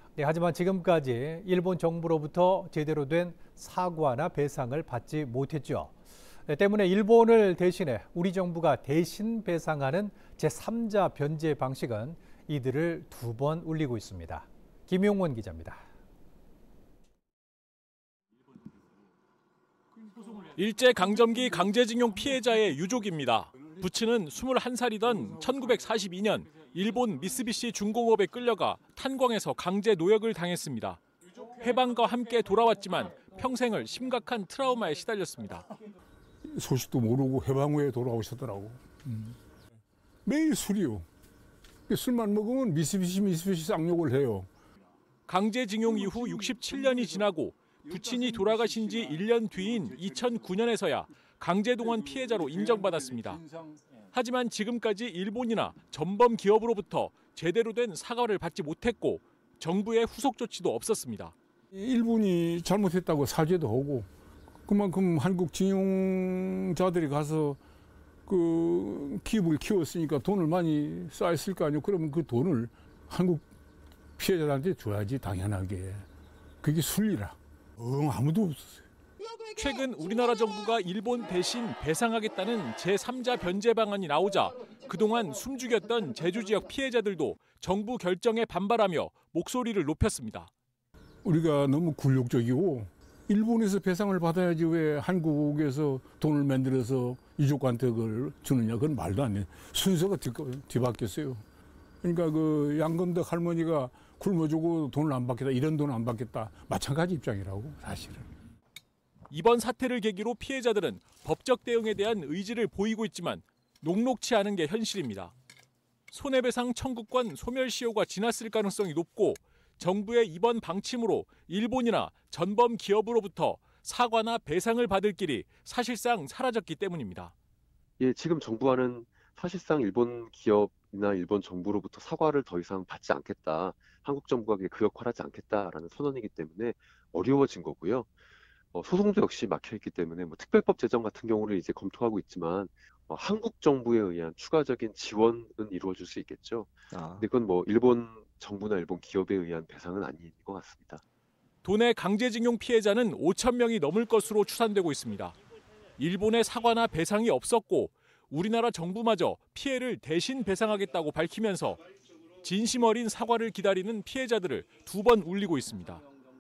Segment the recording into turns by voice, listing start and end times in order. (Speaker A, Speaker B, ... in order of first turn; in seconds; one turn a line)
Speaker A: 0.2-6.0
Speaker A: 6.5-15.8
Speaker B: 20.4-35.7
Speaker C: 36.5-39.4
Speaker C: 40.2-41.1
Speaker C: 41.9-44.5
Speaker B: 45.3-53.4
Speaker C: 53.2-53.8
Speaker B: 54.1-61.4
Speaker C: 61.7-64.1
Speaker C: 64.7-67.6
Speaker C: 68.3-73.4
Speaker C: 74.2-76.1
Speaker C: 76.6-78.9
Speaker B: 79.5-90.5
Speaker C: 91.2-101.4
Speaker C: 102.0-108.3
Speaker B: 109.3-115.3
Speaker B: 116.1-127.3
Speaker D: 128.0-138.1
Speaker D: 138.7-151.0
Speaker B: 151.6-155.4
Speaker B: 156.0-161.8
Speaker B: 162.4-166.0